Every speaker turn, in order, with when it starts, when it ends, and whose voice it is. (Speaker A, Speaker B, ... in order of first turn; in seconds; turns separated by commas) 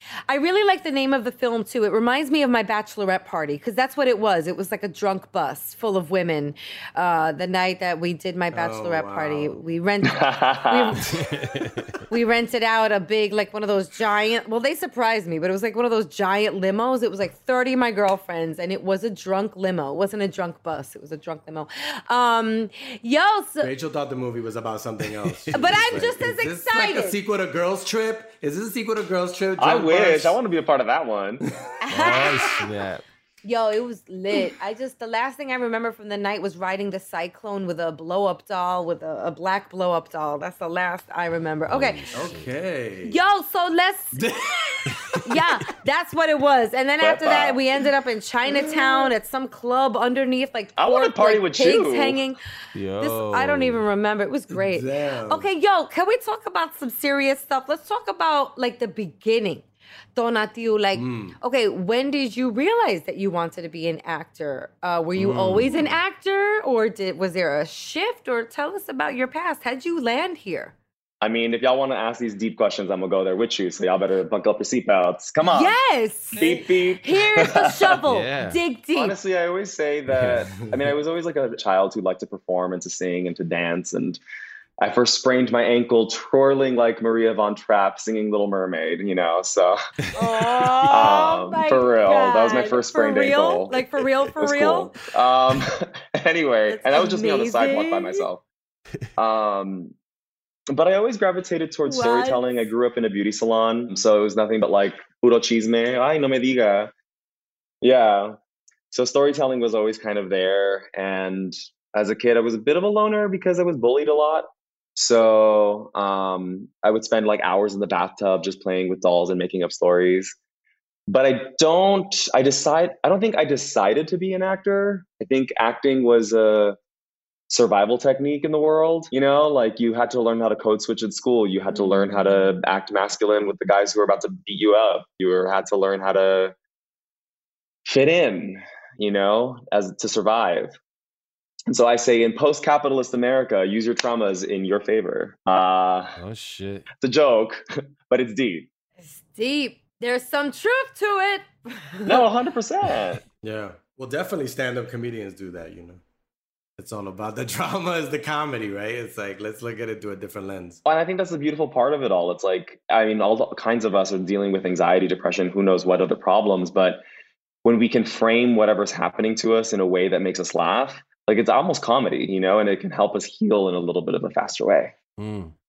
Speaker A: 0.3-11.1, Speaker B: 8.5-9.6, Speaker C: 10.0-11.0, Speaker D: 11.1-11.9, Speaker A: 12.1-23.7, Speaker B: 23.6-30.4, Speaker D: 25.2-25.8, Speaker A: 25.5-27.2, Speaker C: 29.6-31.4, Speaker B: 31.6-32.5, Speaker A: 31.8-32.6, Speaker D: 31.9-33.0, Speaker A: 33.4-42.1, Speaker D: 41.6-42.5, Speaker B: 42.1-43.2, Speaker A: 43.0-44.2, Speaker B: 44.1-45.3, Speaker A: 45.2-52.4, Speaker C: 47.0-47.6, Speaker B: 48.5-49.1, Speaker C: 50.8-52.2, Speaker D: 52.7-53.9, Speaker A: 53.0-70.7, Speaker B: 54.5-55.5, Speaker B: 60.9-61.4, Speaker D: 65.2-66.0, Speaker C: 71.2-75.8, Speaker A: 75.5-79.2, Speaker C: 76.3-78.0, Speaker D: 78.1-78.6, Speaker C: 78.9-84.2, Speaker D: 80.1-80.4, Speaker C: 84.8-89.8, Speaker A: 90.1-94.9, Speaker D: 90.4-91.1, Speaker C: 90.9-93.8, Speaker C: 94.4-98.4, Speaker A: 96.7-98.2, Speaker C: 99.2-99.9, Speaker C: 100.7-106.9, Speaker A: 101.8-102.6, Speaker C: 107.8-108.4, Speaker C: 108.9-120.3, Speaker C: 121.1-126.8, Speaker C: 127.5-136.5, Speaker A: 131.7-132.4, Speaker C: 137.8-140.7, Speaker C: 141.7-146.2, Speaker D: 146.2-146.9, Speaker C: 146.9-148.7, Speaker A: 149.0-152.3, Speaker C: 152.1-153.2, Speaker B: 153.4-156.0, Speaker B: 156.8-160.8, Speaker C: 160.8-167.0, Speaker C: 167.6-174.9, Speaker D: 175.2-175.5